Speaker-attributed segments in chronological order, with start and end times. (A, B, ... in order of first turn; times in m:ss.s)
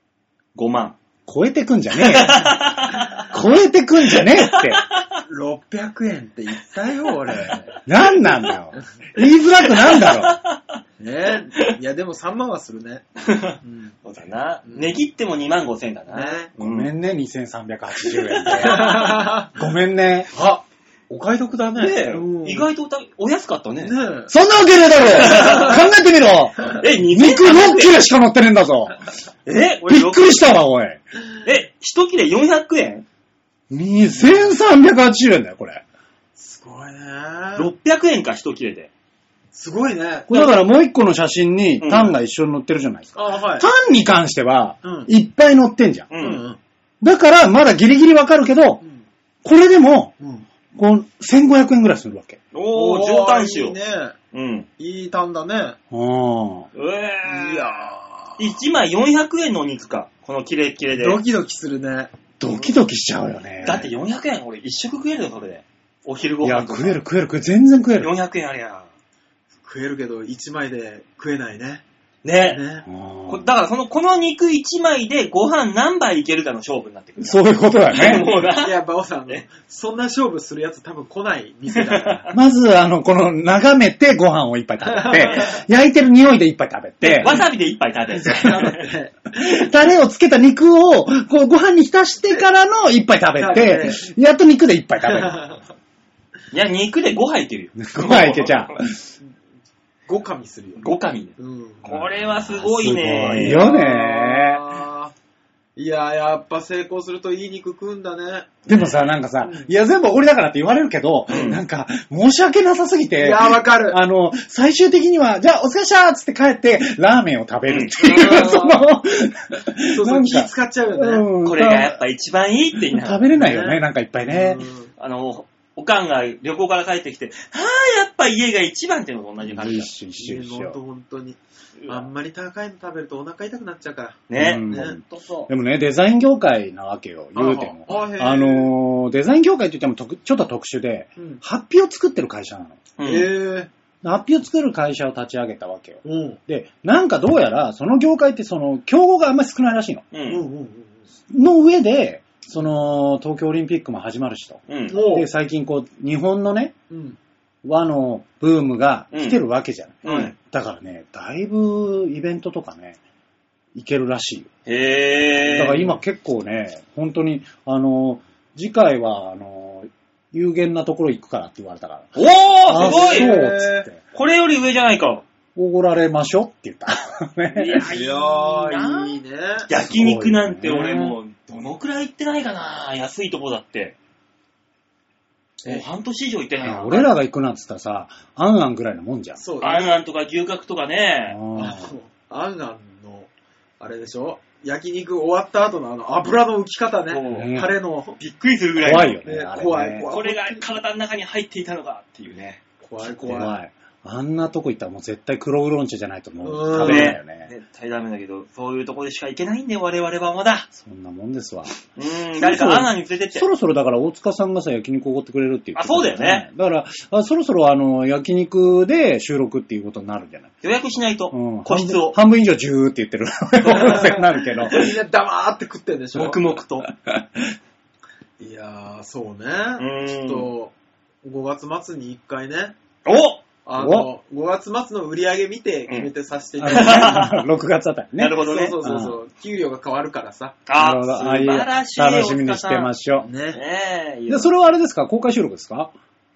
0:00.6-0:01.0 A
0:01.3-0:02.6 B
0:02.0-0:03.3 A
0:03.3-0:04.8 B
0:04.2-0:05.0 A
0:05.3-0:07.8 C
0:07.9-0:10.4 B
0:09.7-0:10.8 A
0:11.0-0:13.1 C
0:13.2-0:16.9 A
0:13.6-0:14.0 C
0:14.7-0:15.0 C
0:16.1-0:16.5 C
0:16.6-0:20.3 B
0:18.1-0:19.2 A
0:18.6-0:19.5 C
0:20.3-0:22.7 C
0:21.8-0:24.0 A
0:23.8-0:24.3 C
0:24.3-0:29.0 B
0:25.2-0:25.8 A
0:25.3-0:25.8 C
0:26.7-0:28.0 A
0:29.5-0:30.5 A
0:29.9-0:31.0 B
0:31.4-0:33.0 A
0:33.7-0:35.8 B
0:34.2-0:34.6 C
0:36.4-0:37.7 C
0:37.6-0:38.9 A
0:39.5-0:40.3 C
0:40.3-0:46.1 B
0:41.8-0:42.2 A
0:43.2-0:43.7 C
0:44.8-0:45.1 C
0:46.1-0:46.4 A
0:46.2-0:46.6 C
0:47.0-0:48.8 B
0:49.4-0:50.2 B
0:50.2-0:50.5 C
0:50.7-0:52.4 B
0:52.5-0:53.8 A
0:52.7-0:54.2 C
0:54.3-0:54.7 A
0:54.8-0:55.8 C
0:55.9-0:56.7 B
0:56.8-1:01.2 A
0:57.2-0:58.4 C
1:00.9-1:02.2 C
1:02.4-1:03.9 B
1:03.6-1:07.0 A
1:06.4-1:08.1 B
1:08.0-1:08.9 A
1:09.6-1:11.8 C
1:12.2-1:12.6 A
1:12.5-1:12.9 C
1:12.9-1:13.5 B
1:13.3-1:19.4 A
1:17.2-1:18.3 B
1:18.6-1:22.3 C
1:21.7-1:22.3 A
1:22.3-1:27.4 B
1:24.9-1:25.5 C
1:27.0-1:28.9 A
1:28.1-1:29.2 C
1:29.4-1:35.4 B
1:33.4-1:34.0 C
1:35.1-1:35.6 C
1:36.5-1:38.7 A
1:37.8-1:39.1 B
1:40.1-1:40.9 C
1:40.8-1:43.7 A
1:41.4-1:41.9 C
1:41.9-1:44.6 B
1:43.1-1:45.1 C
1:45.8-1:48.6 C
1:48.7-2:02.0 B
1:48.7-1:49.0 A
1:49.4-1:49.7 C
1:51.3-1:51.6 A
1:53.2-1:54.0 C
1:57.7-1:58.4 A
1:58.0-1:58.8 C
1:59.9-2:01.3 C
2:01.4-2:03.3 A
2:02.9-2:04.6 B
2:03.3-2:04.9 C
2:05.0-2:09.9 A
2:09.4-2:10.8 B
2:10.2-2:15.5 C
2:11.8-2:12.1 A
2:14.3-2:14.9 A
2:14.4-2:22.8 B
2:17.4-2:18.7 C
2:21.2-2:21.4 C
2:23.0-2:23.3 A
2:23.0-2:23.7 C
2:24.0-2:30.0 B
2:26.0-2:26.4 C
2:30.1-2:30.5 A
2:30.3-2:31.0 C
2:31.3-2:36.7 B
2:34.7-2:35.0 A
2:34.9-2:35.3 C
2:36.9-2:37.2 C
2:37.6-2:43.0 B
2:39.1-2:39.4 A
2:40.0-2:40.4 A
2:43.7-2:44.5 B
2:44.7-2:46.0 A
2:45.4-2:54.0 B
2:52.2-2:53.4 A
2:52.7-2:53.9 C
2:54.1-2:55.2 A
2:55.6-2:57.9 B
2:57.6-3:04.0 A
2:57.8-2:59.7 C
2:59.8-3:01.2 B
3:05.6-3:07.1 A
3:06.6-3:09.4 B
3:09.4-3:09.9 C
3:09.6-3:11.4 A
3:11.3-3:11.9 B
3:11.6-3:18.2 C
3:17.1-3:17.6 A
3:17.3-3:17.8 B
3:18.2-3:19.2 A
3:18.8-3:20.1 B
3:19.2-3:20.6 C
3:20.0-3:22.6 A
3:22.8-3:23.5 C
3:23.0-3:27.5 B
3:26.4-3:27.2 C
3:26.8-3:30.7 A
3:30.8-3:31.8 B
3:32.0-3:33.5 A
3:32.4-3:40.5 B
3:35.8-3:36.5 A
3:40.6-3:42.2 A
3:41.3-3:44.9 B
3:43.6-3:46.4 C
3:46.2-3:46.9 A
3:47.1-3:47.4 B
3:48.4-3:52.8 C
3:49.8-3:50.5 A
3:53.0-3:53.4 A
3:53.6-3:57.3 C
3:53.8-3:54.1 B
3:56.6-3:59.2 B
3:56.6-3:57.5 A
3:58.2-3:58.8 A
3:58.4-4:00.6 C
4:00.7-4:02.9 A
4:00.8-4:03.3 B
4:03.2-4:03.6 C
4:03.5-4:04.5 A
4:04.3-4:05.9 B